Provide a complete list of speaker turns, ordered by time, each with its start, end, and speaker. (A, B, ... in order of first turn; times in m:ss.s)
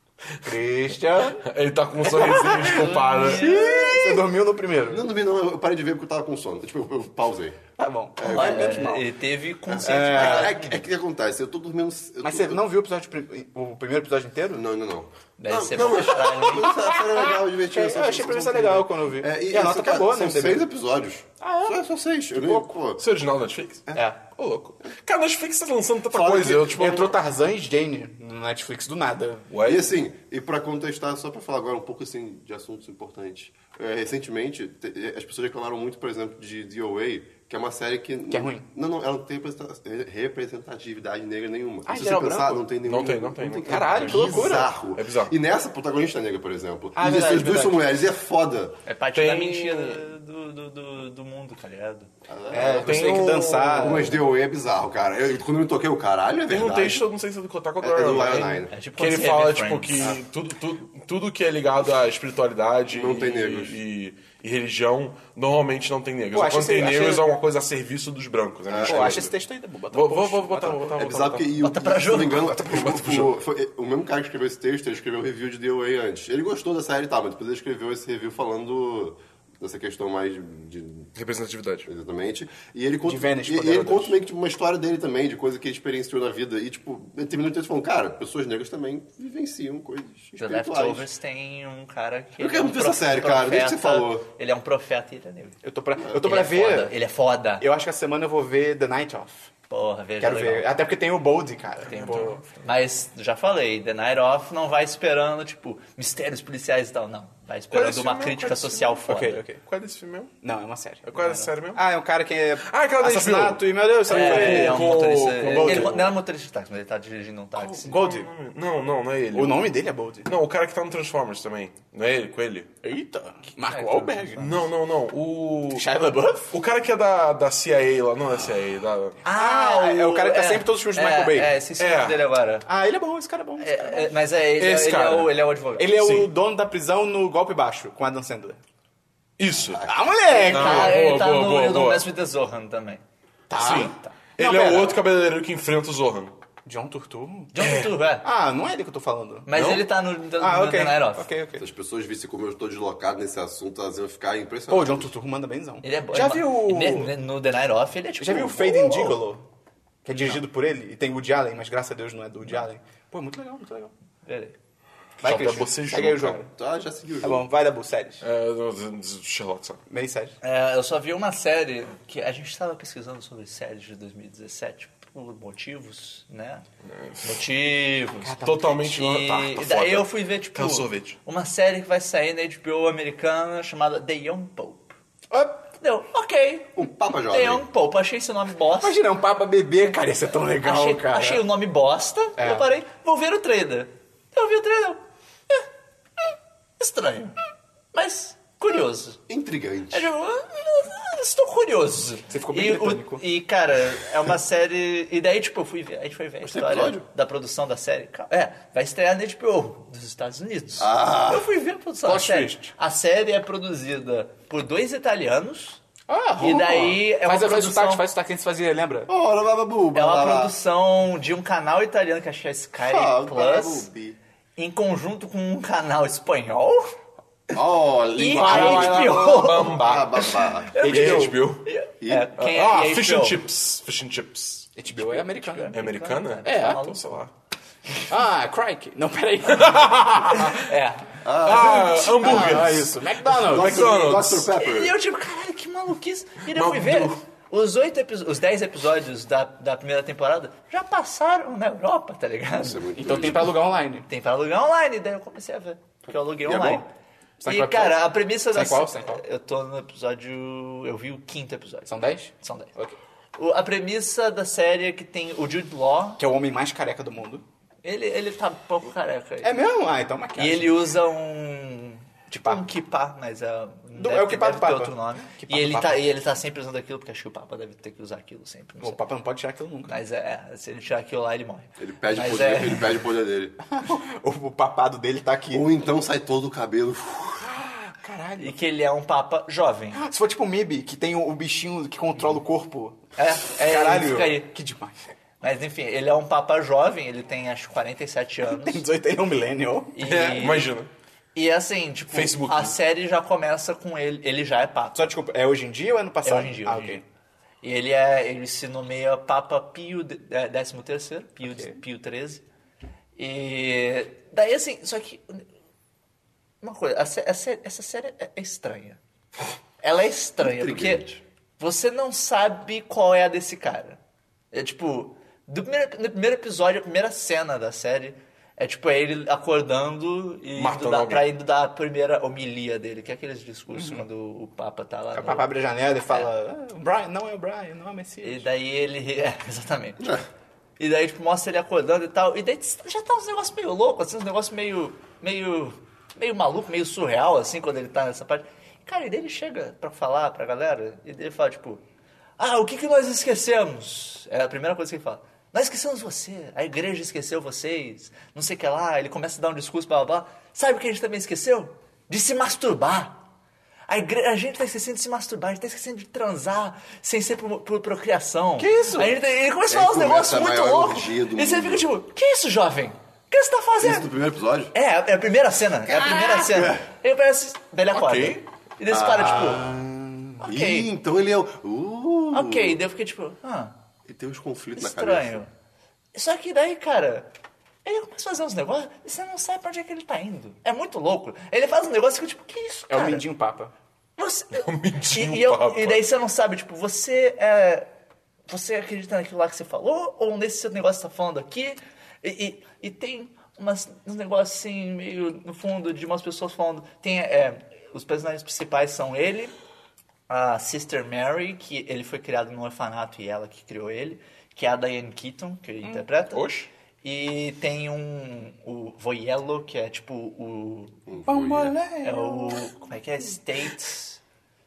0:00.4-0:01.5 A
0:01.4-0:03.6 B
0:02.0-0:05.1 A
0:02.5-0:03.9 C
0:03.7-0:04.3 D
0:04.9-0:07.6 D
0:07.8-0:09.1 A
0:08.2-0:08.9 D
0:08.3-0:10.8 C
0:09.7-0:12.6 D
0:09.8-0:10.6 A
0:12.2-0:14.6 A
0:14.5-0:23.0 D
0:15.4-0:16.8 C
0:16.2-0:20.7 A
0:21.4-0:21.8 A
0:22.3-0:22.7 A
0:23.0-0:27.2 B
0:24.0-0:24.2 A
0:26.1-0:29.5 A
0:29.5-0:29.9 B
0:29.6-0:48.8 D
0:38.3-0:38.7 A
0:41.9-0:42.6 A
0:42.8-0:45.3 B
0:43.6-0:44.7 A
0:47.0-0:47.8 A
0:48.9-0:52.1 C
0:49.2-0:50.1 B
0:52.3-0:57.0 D
0:52.5-0:54.2 A
0:52.6-0:54.2 B
0:56.5-1:09.3 B
0:57.8-0:58.7 D
0:58.7-1:00.1 C
1:02.9-1:03.8 D
1:06.3-1:07.3 A
1:08.7-1:09.3 D
1:08.8-1:11.3 A
1:09.9-1:11.5 B
1:10.9-1:21.1 D
1:11.6-1:12.6 C
1:12.3-1:13.4 B
1:21.2-1:21.9 B
1:21.9-1:31.1 D
1:23.0-1:24.2 A
1:30.4-1:35.6 C
1:32.4-1:34.2 D
1:35.6-1:37.0 A
1:36.1-1:37.6 C
1:37.6-1:39.5 A
1:39.7-1:40.7 C
1:40.2-1:42.4 A
1:41.9-1:42.5 B
1:42.5-1:49.4 C
1:47.7-1:50.3 B
1:49.1-1:49.6 A
1:50.4-1:56.1 A
1:51.1-1:51.8 B
1:52.6-1:56.1 B
1:54.1-1:58.0 C
1:57.6-1:59.7 B
1:57.9-1:58.3 A
1:59.3-2:00.3 A
2:00.2-2:02.7 B
2:02.8-2:04.5 A
2:03.7-2:04.6 C
2:04.4-2:05.9 B
2:05.7-2:06.5 A
2:06.5-2:09.2 B
2:09.2-2:12.7 C
2:09.3-2:11.6 A
2:11.8-2:12.2 B
2:12.7-2:14.1 A
2:13.6-2:15.9 C
2:14.6-2:15.3 B
2:15.8-2:18.6 A
2:16.0-2:16.3 B
2:19.4-2:19.9 B
2:19.7-2:20.0 D
2:19.8-2:21.0 A
2:20.4-2:23.0 C
2:20.5-2:22.1 B
2:23.5-2:25.0 A
2:23.6-2:26.4 B
2:26.6-2:27.6 A
2:27.5-2:28.3 C
2:27.6-2:27.9 B
2:28.2-2:29.8 A
2:29.5-2:31.3 C
2:29.5-2:29.8 B
2:30.4-2:31.6 A
2:31.6-2:35.1 D
2:34.7-2:37.1 A
2:35.8-2:39.2 C
2:38.2-2:39.5 A
2:40.0-2:43.9 A
2:44.2-2:44.6 C
2:45.2-2:46.4 B
2:45.2-2:46.5 A
2:46.6-2:47.4 D
2:47.2-2:48.2 A
2:48.2-2:49.8 B
2:49.9-2:50.4 A
2:50.4-2:56.6 C
2:56.9-2:57.4 B
2:57.2-3:05.0 C
2:58.2-2:59.2 A
2:58.4-3:01.2 B
3:05.3-3:05.7 A
3:05.8-3:09.0 C
3:06.8-3:07.6 D
3:08.8-3:11.4 A
3:10.6-3:15.7 C
3:12.4-3:12.7 A
3:16.8-3:17.4 C
3:17.9-3:19.2 C
3:19.3-3:20.1 D
3:19.9-3:35.8 C
3:22.3-3:23.2 A
3:26.4-3:27.1 D
3:30.8-3:31.5 D
3:32.0-3:32.7 A
3:36.1-3:39.1 A
3:36.4-3:38.1 C
3:39.1-3:40.6 D
3:39.9-3:43.9 C
3:42.8-3:44.2 D
3:44.6-3:47.0 C
3:47.5-3:50.8 D
3:48.2-3:53.4 C
3:48.3-3:49.6 A
3:48.4-3:51.7 B
3:50.8-3:51.4 A
3:52.0-3:52.3 D
3:52.4-3:54.7 B
3:54.8-3:55.8 A
3:55.0-3:57.0 C
3:55.7-3:57.3 B
3:56.4-3:56.8 A
3:58.1-4:00.8 A
3:59.5-4:00.7 B
4:00.6-4:01.1 C
4:01.2-4:02.7 D
4:01.4-4:04.5 B
4:01.5-4:04.1 A
4:03.4-4:05.0 D
4:04.6-4:12.9 C
4:06.5-4:07.2 B
4:12.6-4:13.6 D
4:13.0-4:14.1 A
4:14.1-4:16.9 C
4:16.4-4:16.8 D
4:17.4-4:19.2 A
4:17.5-4:22.7 C
4:21.9-4:23.0 A
4:23.4-4:26.2 C
4:26.2-4:27.4 A
4:27.8-4:29.6 C
4:29.4-4:30.8 A
4:30.4-4:39.0 C
4:34.0-4:36.1 A
4:38.8-4:39.9 A
4:39.9-4:43.0 C
4:41.8-4:43.6 D
4:43.7-4:45.7 A
4:45.5-4:47.6 D
4:47.4-4:48.6 A
4:48.4-4:50.0 C
4:49.9-4:55.0 A
4:53.2-4:54.5 C
4:55.4-4:58.8 C
4:58.4-5:00.0 A
5:00.0-5:00.7 C
5:00.0-5:00.9 B
5:01.4-5:05.1 C
5:02.1-5:02.8 B
5:05.0-5:07.0 A
5:06.2-5:07.0 C
5:07.6-5:12.4 C
5:11.4-5:11.8 A
5:13.2-5:15.5 C
5:16.6-5:19.0 C
5:19.8-5:21.1 C
5:20.4-5:21.2 D
5:21.6-5:24.0 C
5:24.5-5:35.5 C
5:30.6-5:31.3 B
5:33.7-5:34.1 A
5:35.1-5:38.5 A
5:38.2-5:40.2 C
5:40.8-5:51.8 C
5:52.4-6:03.2 C
6:03.9-6:14.1 C
6:08.6-6:09.1 B
6:09.7-6:11.9 D
6:13.8-6:14.7 D
6:14.7-6:19.7 C
6:15.9-6:16.9 D
6:17.9-6:18.4 B
6:18.9-6:19.8 D
6:19.2-6:20.4 A
6:20.4-6:20.9 C
6:20.4-6:22.8 D
6:22.3-6:23.8 C
6:24.1-6:25.4 D
6:24.8-6:25.5 C
6:26.2-6:27.3 C
6:27.8-6:33.3 C
6:32.9-6:33.7 A
6:34.2-6:37.9 C
6:34.5-6:36.0 B
6:38.5-6:49.5 C
6:50.3-6:56.4 C
6:56.3-6:56.7 B
6:57.0-7:01.0 C
7:01.1-7:01.8 D
7:01.3-7:02.8 A
7:02.0-7:04.2 C